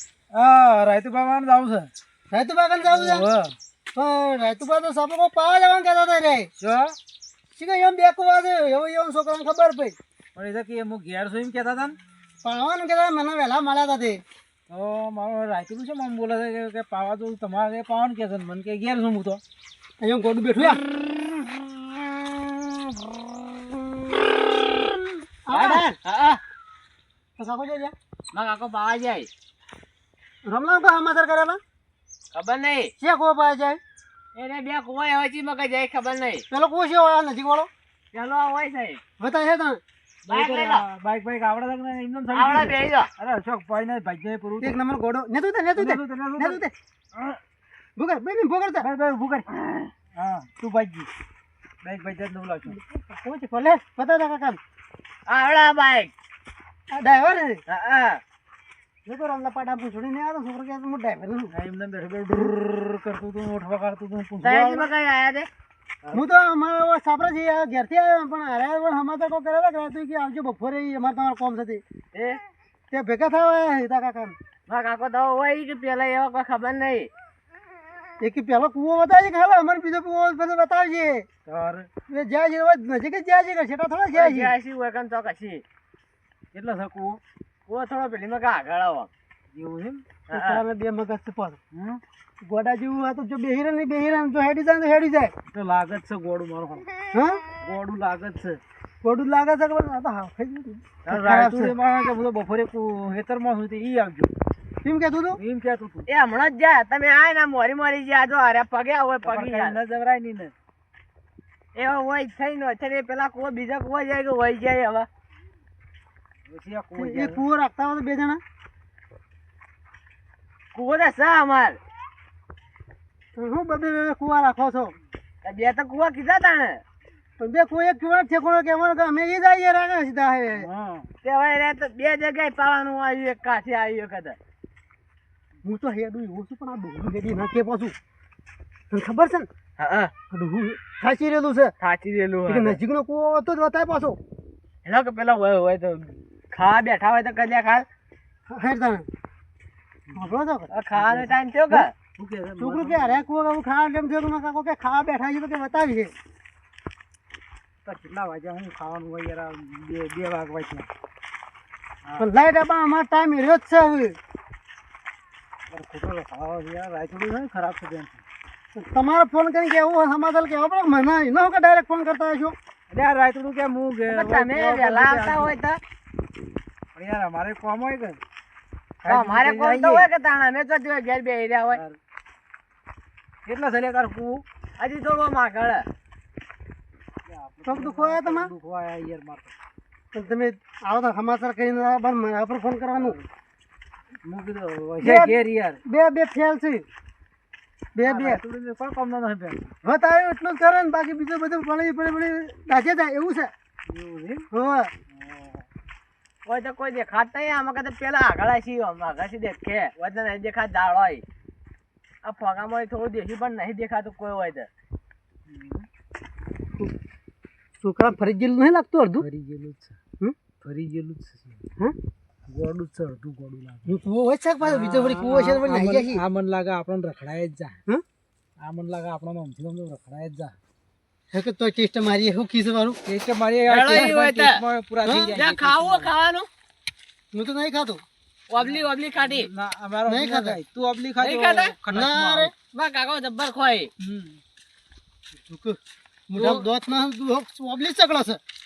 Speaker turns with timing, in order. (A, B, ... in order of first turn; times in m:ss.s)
0:00.3-0:01.9 A
0:02.3-0:03.3 B
0:02.8-0:03.5 A
0:03.9-0:06.5 B
0:06.6-0:06.9 A
0:07.6-0:10.0 B
0:10.3-0:12.0 A
0:12.4-0:14.2 B
0:14.7-0:19.4 A
0:20.0-0:20.8 B
0:24.5-0:26.0 B
0:25.5-0:26.4 C
0:27.4-0:27.9 B
0:28.3-0:29.3 C
0:30.4-0:31.6 B
0:32.3-0:32.9 C
0:33.0-0:33.8 B
0:34.3-0:36.4 C
0:36.5-0:37.7 B
0:38.1-0:39.0 C
0:39.2-0:39.8 B
0:40.3-0:40.8 C
0:40.3-0:44.8 A
0:42.3-0:43.1 C
0:44.6-0:46.7 B
0:45.8-0:46.6 A
0:48.0-0:48.9 B
0:48.8-0:51.1 A
0:51.8-0:52.8 A
0:52.7-0:54.6 B
0:55.3-0:56.1 C
0:56.9-0:57.6 B
0:57.7-0:58.2 C
0:59.0-1:01.5 B
1:01.5-1:04.9 A
1:04.4-1:05.5 C
1:06.1-1:11.8 B
1:12.1-1:12.4 C
1:12.9-1:14.4 B
1:14.7-1:17.1 C
1:18.2-1:21.2 B
1:21.4-1:21.9 A
1:22.1-1:24.5 B
1:24.1-1:25.6 C
1:26.5-1:27.2 A
1:27.7-1:29.1 C
1:29.5-1:30.0 A
1:30.3-1:30.6 C
1:30.3-1:31.6 B
1:31.7-1:32.0 A
1:32.4-1:35.3 B
1:35.5-1:36.9 A
1:37.1-1:37.4 B
1:37.6-1:38.6 A
1:39.0-1:41.7 B
1:41.0-1:44.3 A
1:44.8-1:45.4 B
1:45.4-1:46.1 A
1:46.1-1:49.8 C
1:49.2-1:50.5 A
1:51.7-1:55.1 C
1:56.5-1:57.4 A
1:57.0-1:58.4 B
2:00.7-2:01.8 C
2:03.4-2:04.9 B
2:05.4-2:06.8 C
2:07.4-2:10.7 B
2:10.5-2:11.1 A
2:11.2-2:14.4 C
2:15.6-2:17.9 B
2:18.9-2:19.5 B
2:19.8-2:20.1 C
2:20.3-2:21.7 B
2:21.8-2:22.8 C
2:22.5-2:24.2 B
2:24.8-2:27.8 C
2:28.5-2:29.1 B
2:30.1-2:30.7 B
2:30.7-2:31.9 C
2:30.9-2:31.3 A
2:32.1-2:33.3 A
2:32.6-2:36.1 B
2:37.8-2:40.9 A
2:42.2-2:44.2 B
2:45.7-2:48.2 A
2:48.7-2:52.6 B
2:52.9-2:55.6 A
2:54.0-2:55.8 C
2:56.9-2:58.2 A
2:59.0-3:00.1 A
2:59.0-3:01.8 C
3:03.4-3:04.4 A
3:04.8-3:05.8 C
3:07.3-3:09.5 A
3:07.6-3:08.5 B
3:10.1-3:13.2 B
3:12.9-3:13.3 A
3:14.2-3:15.8 A
3:15.0-3:16.8 B
3:17.9-3:18.4 B
3:18.0-3:19.7 A
3:19.8-3:23.5 B
3:23.9-3:24.5 A
3:24.5-3:24.9 B
3:25.1-3:25.6 A
3:26.4-3:31.2 C
3:32.2-3:34.7 C
3:35.5-3:35.8 A
3:37.8-3:39.3 B
3:39.2-3:40.0 A
3:40.6-3:41.7 A
3:42.5-3:43.9 A
3:43.9-3:46.2 B
3:44.6-3:47.8 A
3:48.6-3:50.6 A
3:51.3-3:53.0 B
3:53.0-3:56.1 A
3:53.7-3:54.6 C
3:53.9-3:54.1 B
3:55.0-3:55.4 B
3:55.3-3:56.5 C
3:57.3-3:58.0 B
3:58.5-3:59.5 C
3:58.6-4:02.5 A
4:00.1-4:00.6 B
4:01.2-4:01.7 C
4:01.9-4:02.5 B
4:02.7-4:03.9 C
4:04.0-4:04.4 A
4:05.4-4:08.4 B
4:06.4-4:06.7 C